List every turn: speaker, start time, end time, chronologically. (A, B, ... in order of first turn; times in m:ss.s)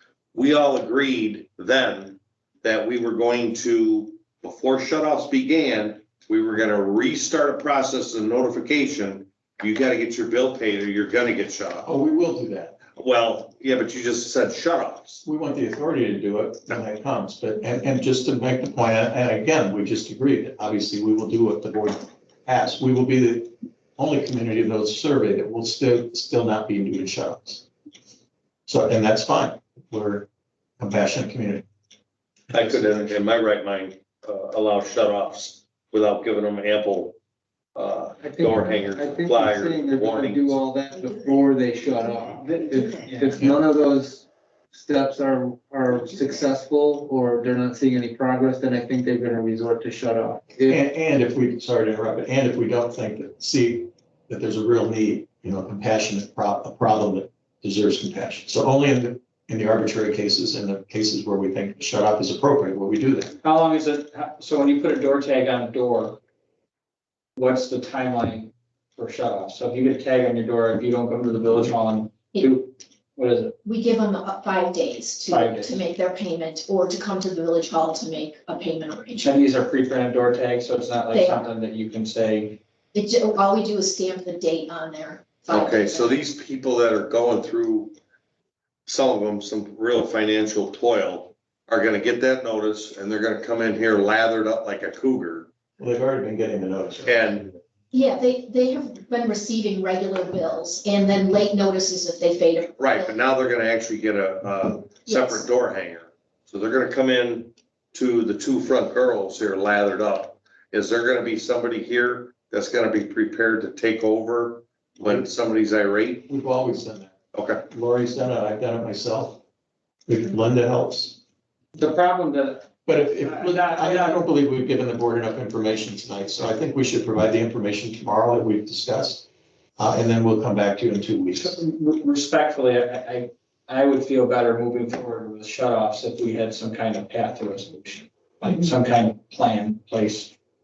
0:00.3-0:11.9 A
0:11.8-0:12.8 B
0:13.0-0:15.2 A
0:15.2-0:27.6 B
0:28.7-0:30.3 B
0:30.8-0:31.7 B
0:32.5-0:37.2 A
0:37.8-0:40.6 A
0:38.2-0:50.8 C
0:50.7-1:03.4 B
1:03.4-1:06.2 D
1:07.4-1:13.5 D
1:13.6-1:19.3 E
1:15.3-1:15.8 D
1:19.2-1:22.6 D
1:21.1-1:21.5 E
1:22.9-1:26.2 E
1:25.5-1:28.0 A
1:28.9-1:35.5 A
1:35.8-1:37.5 B
1:37.0-1:37.4 A
1:37.9-1:43.2 E
1:42.8-1:56.3 A
1:45.0-1:45.4 E
1:56.3-1:57.2 B
1:57.3-1:57.6 A
1:57.7-1:59.4 B
2:00.1-2:01.2 B
2:01.8-2:04.3 D
2:02.9-2:09.3 B
2:09.8-2:11.6 B
2:11.4-2:20.3 D